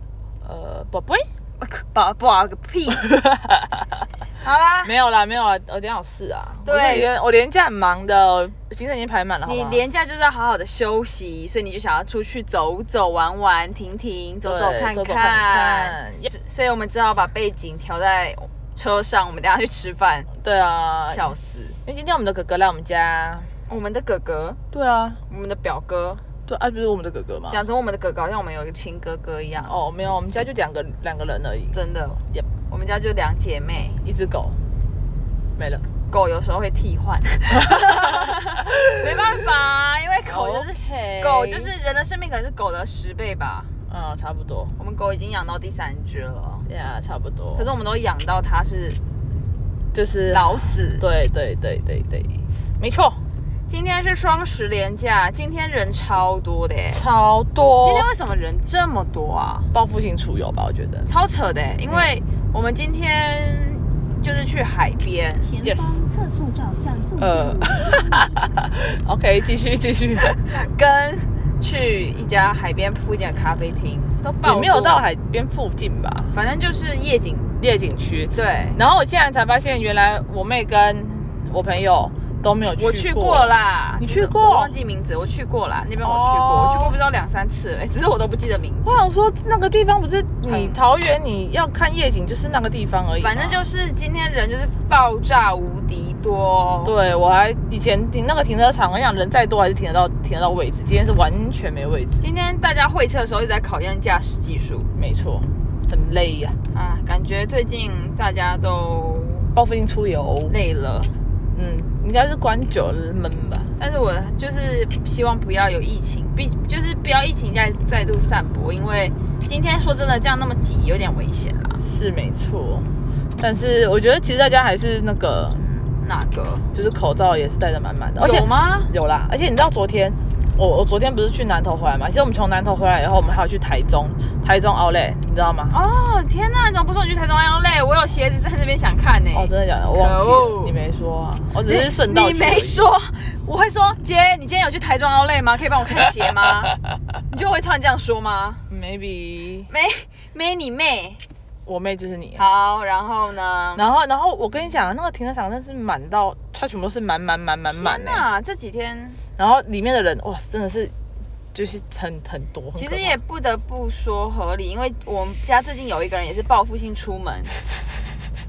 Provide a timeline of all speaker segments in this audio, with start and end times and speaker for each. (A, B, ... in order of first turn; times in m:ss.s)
0:00.4-0:01.3 A
0:01.6-0:03.2 B
0:03.0-0:03.8 A
0:04.4-0:04.9 B
0:04.8-0:09.8 A
0:06.6-0:07.1 B
0:09.4-0:20.3 B
0:14.4-0:16.3 A
0:20.4-0:21.3 A
0:21.1-0:21.8 B
0:21.8-0:23.5 A
0:23.7-0:24.6 B
0:24.7-0:25.2 A
0:25.3-0:26.2 B
0:26.4-0:27.6 A
0:27.5-0:29.7 B
0:29.6-0:31.8 A
0:31.7-0:34.0 B
0:34.0-0:34.6 A
0:35.6-0:35.8 A
0:36.1-0:43.7 B
0:40.3-0:41.7 A
0:43.9-0:44.7 A
0:44.8-0:46.7 B
0:46.6-0:47.7 A
0:47.6-0:49.0 B
0:49.9-0:53.2 A
0:50.3-0:51.0 B
0:53.7-0:57.0 B
0:56.9-0:58.1 A
0:57.8-0:59.7 B
0:59.7-1:01.1 A
1:01.1-1:05.6 B
1:05.6-1:06.1 A
1:06.0-1:08.3 C
1:07.2-1:10.3 A
1:10.2-1:15.0 B
1:14.4-1:16.3 A
1:16.3-1:17.5 B
1:17.6-1:24.7 A
1:18.3-1:18.8 B
1:22.8-1:29.0 B
1:26.0-1:27.0 A
1:28.8-1:33.6 A
1:30.5-1:30.8 B
1:33.2-1:36.9 B
1:36.8-1:42.2 A
1:42.2-1:44.9 B
1:45.0-1:46.6 A
1:46.7-1:49.5 B
1:49.5-1:50.5 A
1:50.5-1:51.1 B
1:51.5-1:53.7 A
1:53.8-2:01.8 B
2:01.8-2:05.6 A
2:05.6-2:06.7 B
2:06.7-2:15.8 A
2:08.2-2:08.9 B
2:15.7-2:20.8 B
2:19.3-2:22.8 A
2:21.6-2:26.7 B
2:27.3-2:28.6 B
2:28.7-2:29.7 A
2:29.7-2:31.2 B
2:31.6-2:32.4 A
2:32.4-2:33.8 B
2:33.8-2:38.2 A
2:37.7-2:39.2 B
2:39.4-2:40.9 A
2:41.5-2:43.2 A
2:42.7-2:47.6 B